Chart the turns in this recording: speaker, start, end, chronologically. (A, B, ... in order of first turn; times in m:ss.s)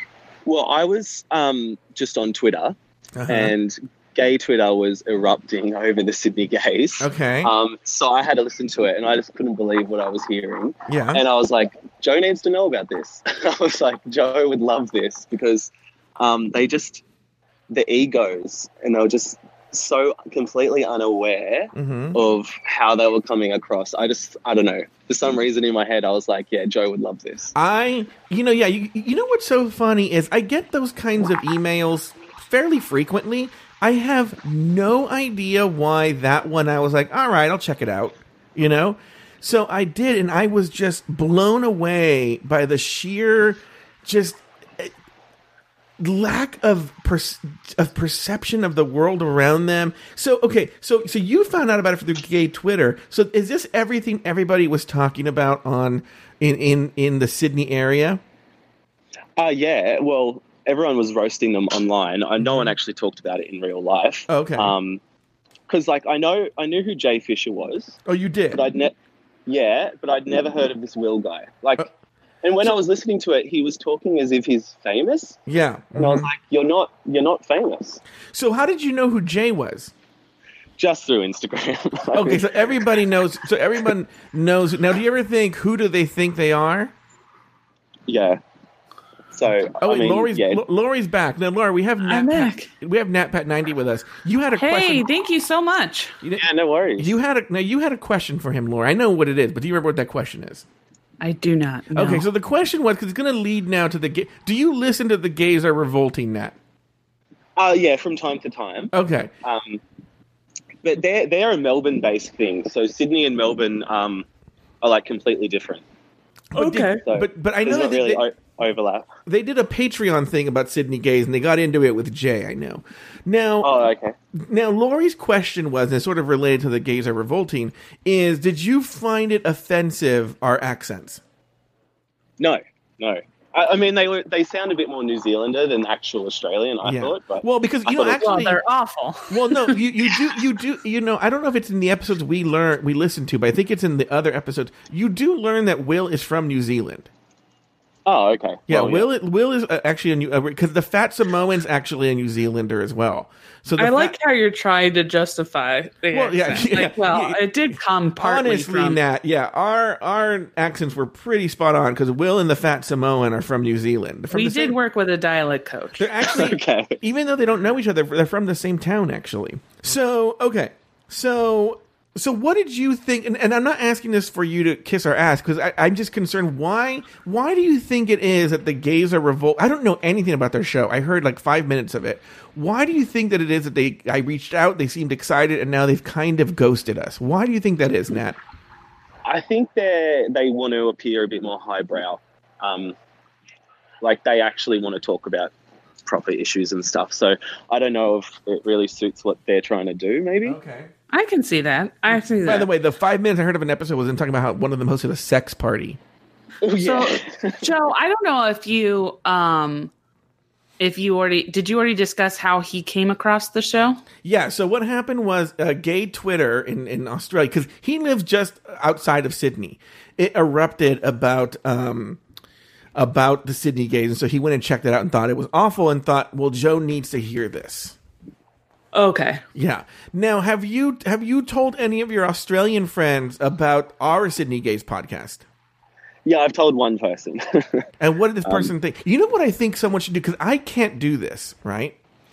0:00.4-0:02.8 A
0:03.2-0:03.5 B
0:03.3-0:17.0 A
0:07.0-0:07.5 B
0:10.9-0:11.2 B
0:17.7-0:27.5 A
0:21.7-0:22.2 B
0:27.5-0:44.9 B
0:46.0-0:58.2 B
0:59.4-1:05.0 A
1:02.4-1:02.7 B
1:04.3-1:04.8 B
1:05.7-1:08.0 A
1:08.0-1:08.6 B
1:08.5-1:08.9 A
1:09.5-1:11.9 A
1:12.4-1:15.4 A
1:15.5-1:16.3 B
1:16.0-1:18.0 A
1:18.3-1:19.9 B
1:20.8-1:23.0 A
1:22.1-1:26.9 B
1:28.1-1:28.4 A
1:29.3-1:30.6 A
1:29.8-1:35.0 B
1:32.0-1:32.7 C
1:34.6-1:36.2 C
1:36.4-1:37.1 A
1:37.0-1:40.6 B
1:41.2-1:42.2 C
1:41.9-1:46.6 B
1:47.6-1:49.8 A
1:48.9-1:49.3 B
1:50.8-1:54.2 A
1:54.8-1:55.8 A
1:56.5-1:58.2 B
1:56.5-1:57.0 C
1:57.0-1:59.1 A
1:59.2-2:03.7 B
2:03.6-2:04.1 A
2:04.3-2:11.2 B
2:12.4-2:18.3 A
2:16.8-2:18.6 B
2:18.2-2:20.1 C
2:19.3-2:27.1 B
2:28.0-2:29.1 A
2:28.7-2:34.1 B
2:33.8-2:39.0 C
2:36.1-2:37.4 B
2:38.2-2:44.8 B
2:44.3-2:46.4 C
2:46.0-3:08.4 B
2:46.2-2:47.0 A
3:09.2-3:13.0 A
3:14.0-3:15.5 A
3:16.0-3:20.6 A
3:20.4-3:20.9 B
3:21.1-3:22.7 C
3:22.4-3:26.0 B
3:26.6-3:27.7 A
3:26.8-3:29.9 C
3:30.8-3:34.0 C
3:34.2-3:42.2 B
3:43.0-3:48.0 B
3:48.9-3:49.4 C
3:49.5-3:55.4 B
3:56.2-3:57.8 A
3:58.0-4:02.0 B
3:58.4-3:58.7 A